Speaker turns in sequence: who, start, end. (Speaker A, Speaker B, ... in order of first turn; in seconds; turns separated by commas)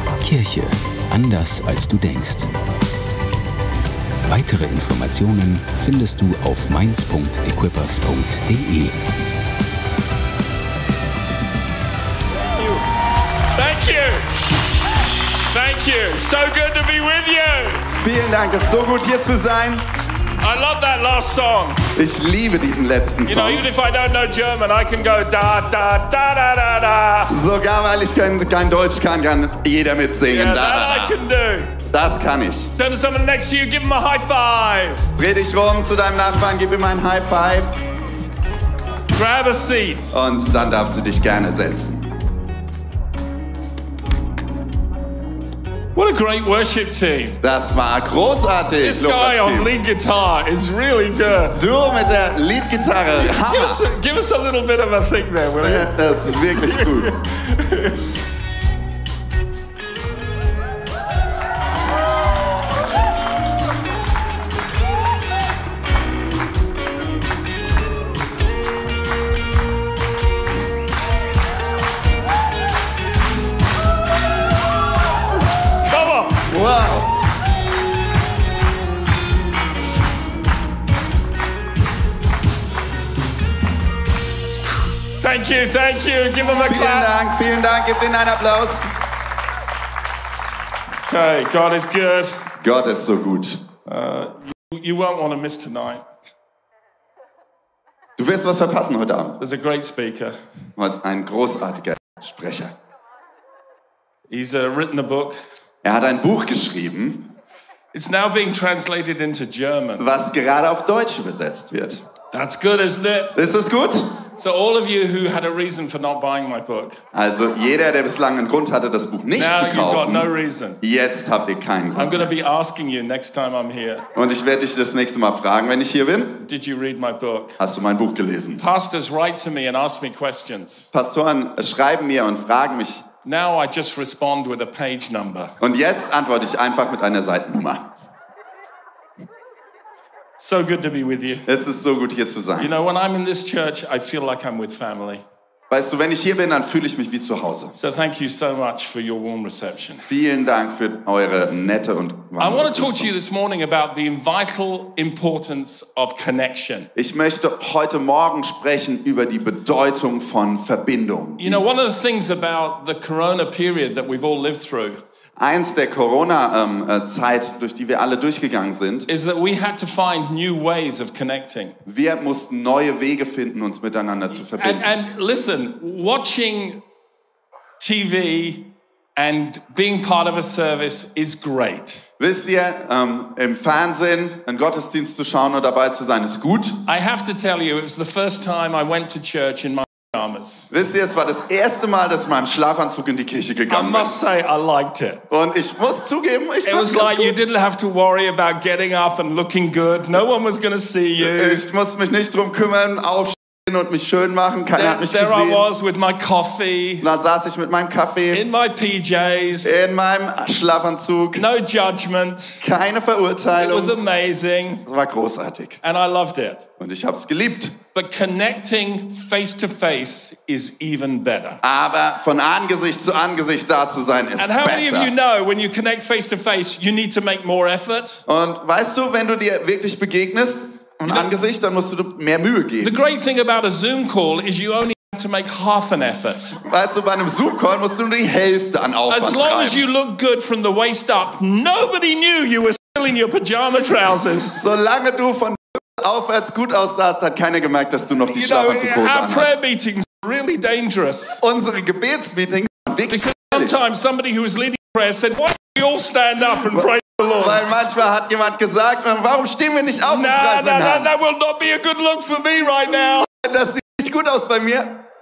Speaker A: 0.2-2.5, Speaker A: 4.2-9.0, Speaker B: 12.6-12.8, Speaker B: 13.5-14.3, Speaker B: 15.5-17.9, Speaker C: 17.9-19.9, Speaker B: 20.4-21.8, Speaker C: 21.9-23.7, Speaker B: 23.2-27.4, Speaker C: 27.3-31.2, Speaker B: 30.2-31.7, Speaker C: 31.9-32.7, Speaker B: 32.8-35.1, Speaker C: 35.2-37.8, Speaker B: 39.1-40.1, Speaker C: 40.1-42.1, Speaker B: 45.9-47.4, Speaker C: 47.4-49.7, Speaker B: 48.8-51.6, Speaker C: 51.4-53.8, Speaker B: 53.1-58.0, Speaker C: 55.6-57.1, Speaker B: 75.8-76.5, Speaker C: 76.4-77.2, Speaker B: 85.2-87.1, Speaker C: 86.5-88.9, Speaker B: 91.1-92.4, Speaker C: 92.6-93.7, Speaker B: 93.8-96.0, Speaker C: 98.2-99.4, Speaker B: 99.4-100.4, Speaker C: 100.8-102.7, Speaker B: 104.3-105.4, Speaker C: 105.8-107.3, Speaker B: 107.9-110.1, Speaker C: 110.0-112.0, Speaker B: 112.3-113.3, Speaker C: 113.3-114.2, Speaker B: 114.3-117.0, Speaker C: 117.1-120.3, Speaker B: 119.3-120.8, Speaker C: 120.8-122.3, Speaker B: 122.0-124.0, Speaker C: 124.1-126.4, Speaker B: 126.4-127.6, Speaker C: 127.6-128.6, Speaker B: 128.6-130.9, Speaker C: 130.9-133.0, Speaker B: 133.2-135.5, Speaker C: 135.6-137.9, Speaker B: 140.4-141.4, Speaker C: 141.4-142.7, Speaker B: 142.6-145.2, Speaker C: 145.7-147.7, Speaker B: 147.7-150.1, Speaker C: 150.1-153.1, Speaker B: 152.4-156.9, Speaker C: 156.9-161.6, Speaker B: 161.4-165.0, Speaker C: 165.4-169.1, Speaker B: 169.1-171.8, Speaker C: 171.8-174.9, Speaker B: 174.5-176.8, Speaker B: 177.8-182.1, Speaker C: 182.2-186.8, Speaker B: 186.8-190.7, Speaker C: 190.7-194.2, Speaker B: 193.7-195.2, Speaker C: 195.3-197.4, Speaker B: 196.6-201.7, Speaker C: 201.2-205.6, Speaker B: 204.7-207.1, Speaker C: 207.0-208.4, Speaker B: 208.3-209.8, Speaker C: 209.6-211.4, Speaker B: 211.3-212.6, Speaker C: 212.6-214.0, Speaker B: 213.6-214.8, Speaker C: 214.8-215.8, Speaker B: 215.8-216.6, Speaker C: 216.8-217.8, Speaker B: 217.9-221.6, Speaker C: 221.6-225.1, Speaker B: 224.4-228.2, Speaker C: 228.3-232.9, Speaker B: 232.8-236.6, Speaker C: 236.6-239.8, Speaker B: 239.1-244.6, Speaker C: 244.6-249.6, Speaker B: 248.3-251.4, Speaker C: 251.4-253.8, Speaker B: 253.1-257.6, Speaker C: 256.7-261.1, Speaker B: 260.1-263.3, Speaker C: 263.3-265.0